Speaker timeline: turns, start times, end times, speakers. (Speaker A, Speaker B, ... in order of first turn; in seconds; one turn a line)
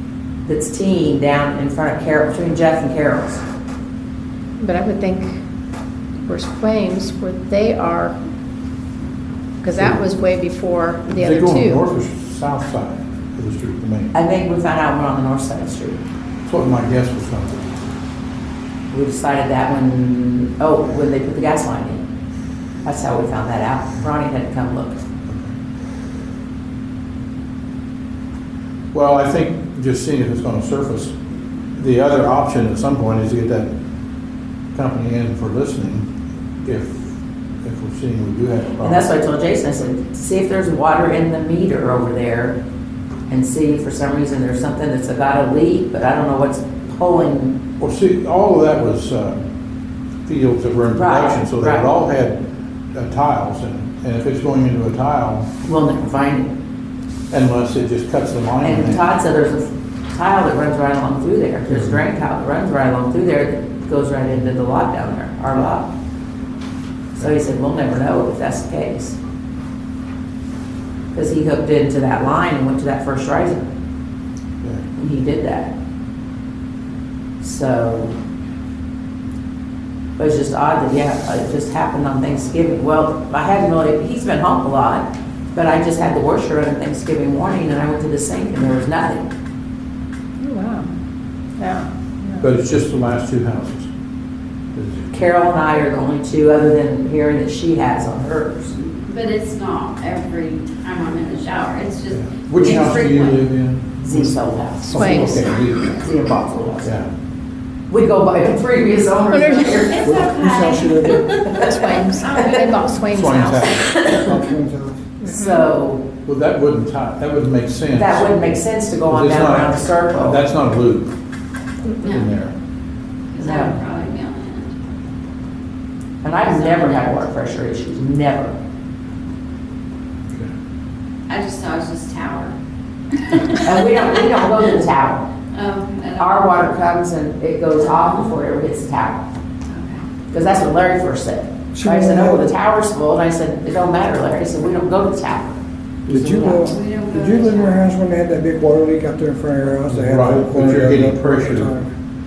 Speaker A: 0.4-3.4
Speaker B: 4.6-5.4
Speaker B: 6.3-8.2
Speaker B: 9.6-11.8
Speaker C: 11.1-14.1
Speaker A: 14.1-16.0
Speaker C: 16.4-17.8
Speaker A: 18.9-22.0
Speaker A: 22.8-25.0
Speaker C: 25.3-25.5
Speaker C: 28.9-31.1
Speaker C: 31.8-33.7
Speaker C: 34.7-37.1
Speaker C: 37.6-39.0
Speaker A: 38.8-42.6
Speaker A: 43.3-47.6
Speaker C: 47.8-49.4
Speaker C: 50.2-52.4
Speaker A: 50.9-51.9
Speaker C: 52.9-55.5
Speaker A: 55.6-56.5
Speaker C: 57.3-59.0
Speaker A: 58.6-65.9
Speaker C: 61.7-62.0
Speaker A: 67.2-69.2
Speaker A: 71.1-73.7
Speaker A: 75.0-75.7
Speaker A: 77.4-78.1
Speaker A: 80.2-89.2
Speaker B: 90.4-90.9
Speaker B: 91.6-92.5
Speaker C: 92.4-93.9
Speaker C: 94.7-95.1
Speaker A: 95.1-98.7
Speaker D: 98.8-103.4
Speaker C: 102.1-107.1
Speaker A: 104.0-106.9
Speaker B: 104.8-105.4
Speaker A: 107.9-110.1
Speaker B: 109.3-109.8
Speaker D: 109.8-113.0
Speaker E: 110.0-111.3
Speaker A: 111.1-112.1
Speaker B: 111.6-114.0
Speaker C: 113.1-114.5
Speaker A: 114.0-114.2
Speaker E: 114.2-115.1
Speaker B: 115.2-115.7
Speaker A: 115.2-116.0
Speaker C: 116.2-121.1
Speaker A: 117.9-120.4
Speaker C: 121.9-122.5
Speaker D: 122.0-122.3
Speaker D: 123.3-124.7
Speaker A: 123.4-123.8
Speaker A: 126.2-128.5
Speaker D: 126.4-127.1
Speaker D: 131.3-132.5
Speaker D: 133.1-134.3
Speaker A: 133.6-135.2
Speaker D: 135.5-136.7
Speaker A: 136.2-139.2
Speaker D: 137.8-138.3
Speaker D: 139.7-140.0
Speaker A: 140.3-146.6
Speaker E: 141.7-142.5
Speaker E: 146.1-151.9
Speaker D: 146.3-147.9
Speaker C: 149.9-151.7